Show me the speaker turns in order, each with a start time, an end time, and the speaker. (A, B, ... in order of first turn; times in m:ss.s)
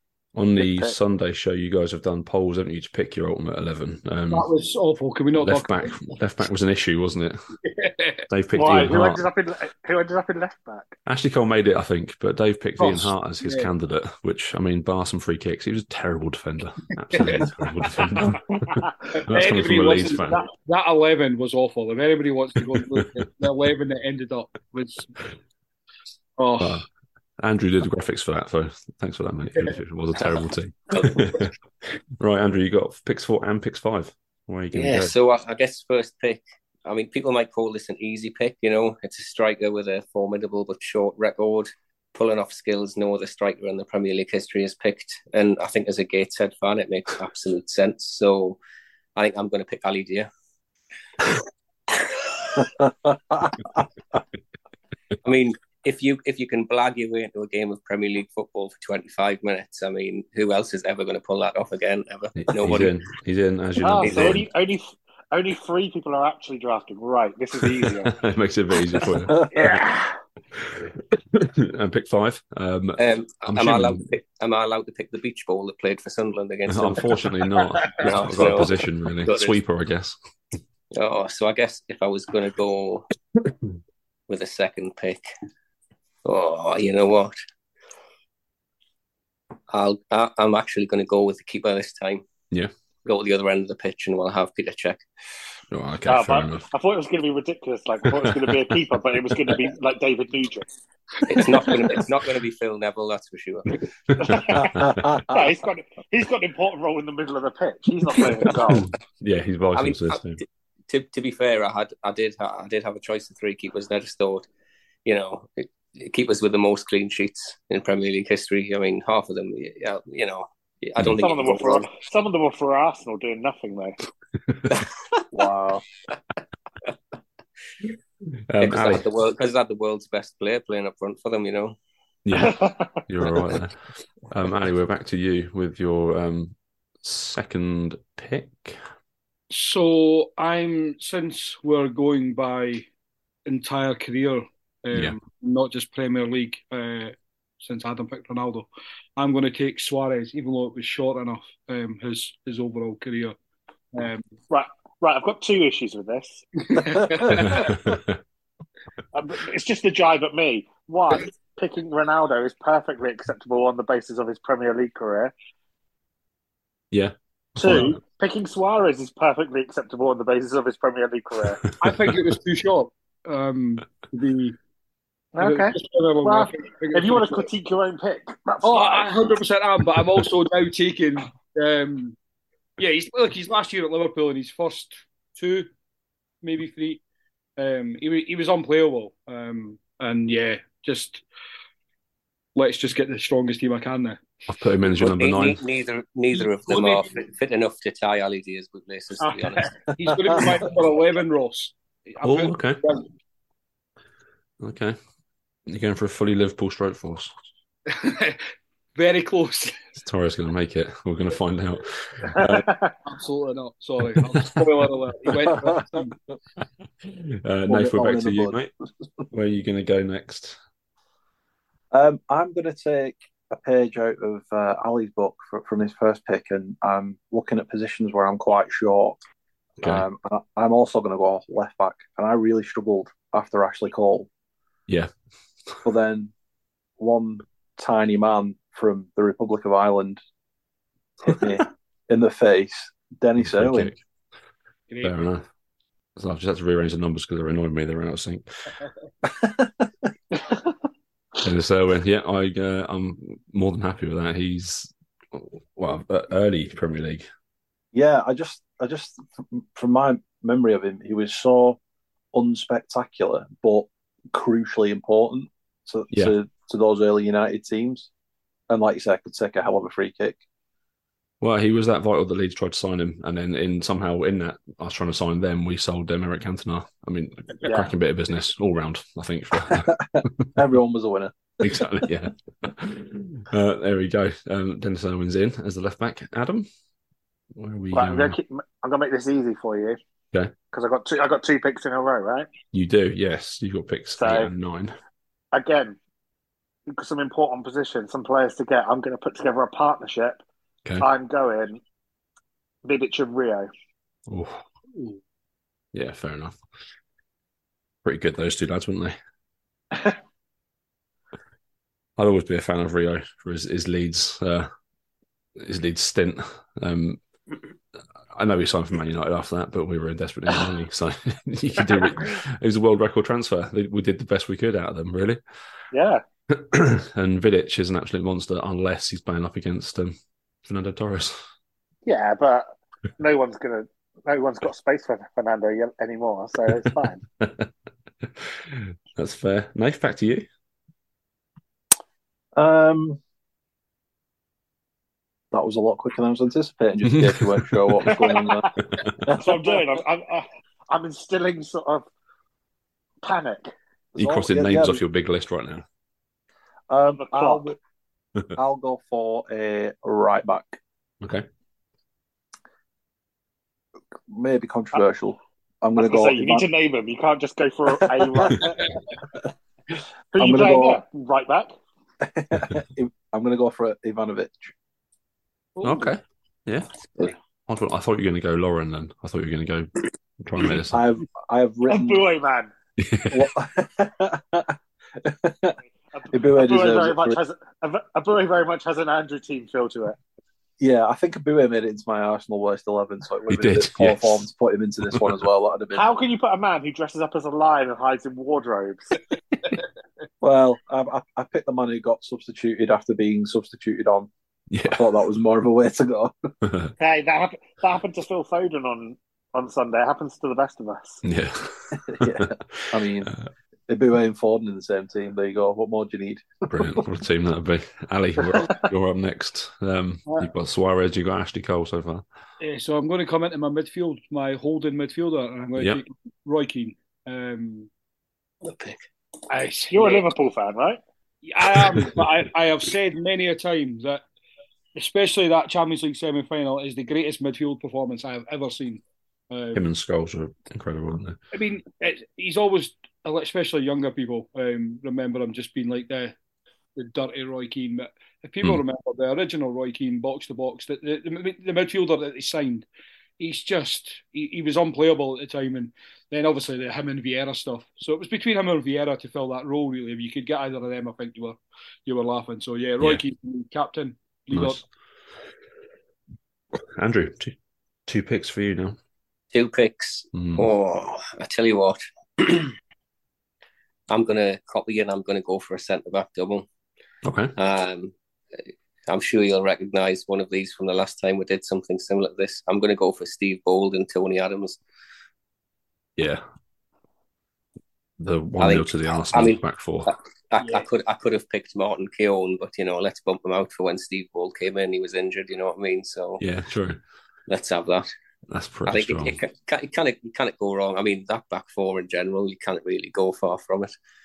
0:00.4-0:04.5 A
0:04.3-0:06.2 B
0:05.4-0:07.4 A
0:07.6-0:08.3 B
0:08.3-0:09.3 A
0:08.5-0:10.9 C
0:11.1-0:20.4 A
0:12.8-0:13.7 B
0:17.1-0:18.3 B
0:19.2-0:25.1 B
0:22.6-0:23.1 A
0:26.4-0:26.8 B
0:26.6-0:26.8 A
0:27.4-0:35.2 A
0:30.9-0:31.2 D
0:34.7-0:48.6 D
0:49.2-0:50.3 D
0:52.6-0:53.8 E
0:55.2-1:03.0 D
1:02.4-1:04.5 A
1:03.8-1:08.1 C
1:04.0-1:04.4 D
1:07.8-1:09.8 A
1:09.0-1:10.2 C
1:10.5-1:14.1 A
1:13.0-1:17.3 D
1:16.7-1:20.2 A
1:18.0-1:19.6 D
1:20.9-1:23.1 D
1:24.3-1:25.2 D
1:26.2-1:27.4 D
1:29.7-1:32.2 D
1:33.0-1:35.0 D
1:35.7-1:36.7 A
1:36.1-1:40.7 C
1:38.2-1:38.7 A
1:41.3-1:43.8 D
1:41.4-1:42.0 C
1:44.1-1:45.2 A
1:44.2-1:44.8 C
1:44.6-1:45.4 E
1:45.3-1:48.9 C
1:48.6-1:50.4 A
1:49.8-1:54.5 D
1:55.0-2:02.0 D
2:01.2-2:04.0 C
2:04.5-2:04.8 A
2:04.7-2:05.2 D
2:05.3-2:05.8 E
2:08.5-2:09.0 A
2:08.6-2:11.8 D
2:12.2-2:12.6 A
2:12.3-2:13.0 C
2:13.1-2:13.8 A
2:14.3-2:18.8 A
2:19.5-2:22.9 B
2:23.5-2:28.7 B
2:24.9-2:25.2 A
2:29.2-2:33.4 B
2:33.9-2:34.2 B
2:34.5-2:37.8 C
2:36.7-2:37.7 B
2:37.2-2:38.2 A
2:39.1-2:45.3 C
2:46.9-2:48.0 A
2:47.6-2:51.6 C
2:51.6-2:52.2 A
2:51.8-2:54.6 B
2:55.4-2:59.1 C
2:55.4-2:57.5 B
2:58.6-3:02.2 B
3:02.8-3:05.7 B
3:06.4-3:07.0 B
3:07.6-3:11.2 B
3:12.6-3:14.2 B
3:14.5-3:15.6 A
3:15.0-3:19.7 D
3:16.6-3:17.1 B
3:19.2-3:23.1 B
3:19.9-3:20.4 E
3:22.2-3:22.8 A
3:24.6-3:25.0 A
3:25.7-3:27.3 A
3:27.9-3:28.4 B
3:29.0-3:29.8 B
3:30.0-3:32.7 A
3:32.3-3:32.9 C
3:33.0-3:36.1 B
3:34.1-3:34.6 A
3:37.0-3:38.7 A
3:37.7-3:38.6 E
3:39.3-3:40.6 A
3:41.9-3:49.2 E
3:49.8-3:54.3 E
3:55.8-3:56.3 E
3:57.0-4:00.2 E
4:01.2-4:03.9 E
4:03.4-4:04.0 A
4:05.0-4:05.4 A
4:06.2-4:08.5 A
4:09.3-4:09.9 E
4:10.3-4:10.6 C
4:11.4-4:17.2 A
4:17.9-4:21.8 E
4:22.3-4:28.1 E
4:28.7-4:30.4 E
4:31.4-4:40.5 A
4:37.6-4:37.9 C
4:39.7-4:41.8 E
4:41.6-4:46.7 A
4:47.6-4:48.4 A
4:47.9-4:50.0 C
4:50.7-4:52.5 C
4:52.7-4:55.0 A
4:54.2-4:54.5 C
4:55.5-4:56.0 C
4:56.9-5:00.4 C
5:01.0-5:01.8 C
5:02.8-5:03.7 C
5:04.3-5:04.6 A
5:05.9-5:06.6 A
5:08.0-5:09.2 A
5:12.2-5:14.7 A
5:15.6-5:17.2 A
5:18.3-5:25.4 A
5:25.9-5:26.2 C
5:26.5-5:31.4 A
5:32.1-5:37.2 C
5:37.4-5:37.7 A
5:38.2-5:40.5 A
5:42.6-5:43.2 E
5:45.5-5:50.0 E
5:47.0-5:48.1 A
5:48.1-5:48.7 C
5:48.8-5:49.3 A
5:49.4-5:52.1 C
5:53.2-5:53.7 C
5:54.2-5:55.0 E
5:54.2-5:55.8 A
5:56.9-5:57.8 E
5:57.1-5:57.6 C
5:58.6-6:00.8 E
6:04.3-6:06.7 E
6:06.0-6:08.8 C
6:07.9-6:08.8 E
6:10.3-6:11.7 C
6:10.4-6:11.0 E
6:12.2-6:14.7 E
6:15.8-6:16.1 B
6:15.8-6:21.1 A
6:20.9-6:22.2 E
6:21.9-6:22.7 C
6:23.0-6:23.5 A
6:23.3-6:25.8 E
6:26.1-6:30.2 C
6:26.3-6:27.4 E
6:30.8-6:36.1 E
6:33.5-6:34.4 A
6:35.9-6:39.2 C
6:40.4-6:44.3 E
6:44.7-6:45.0 A
6:44.8-6:46.3 E
6:46.6-6:46.9 A
6:47.0-6:51.2 C
6:51.2-6:53.5 A
6:51.9-6:53.3 E
6:53.9-6:57.0 E
6:56.7-7:02.2 A
6:58.6-6:58.8 C
7:02.6-7:07.9 B
7:05.8-7:06.0 A
7:08.6-7:09.0 D
7:09.5-7:10.3 B
7:09.9-7:11.0 C
7:11.4-7:14.2 B
7:11.8-7:12.2 A
7:15.0-7:19.8 B
7:19.7-7:21.4 A
7:21.5-7:26.4 B
7:27.0-7:32.9 B
7:33.4-7:44.8 B
7:44.5-7:44.8 A
7:47.0-7:47.6 A
7:48.1-7:49.0 A
7:49.5-7:52.7 D
7:50.3-7:50.7 A
7:54.1-7:56.7 D
7:57.2-7:57.6 A
7:57.6-7:58.1 D
7:59.1-8:04.8 D
8:06.2-8:06.4 A
8:08.2-8:10.1 A
8:08.6-8:16.4 D
8:10.6-8:10.8 B
8:16.4-8:17.0 A
8:17.5-8:18.1 D
8:18.5-8:19.4 A
8:18.9-8:23.9 D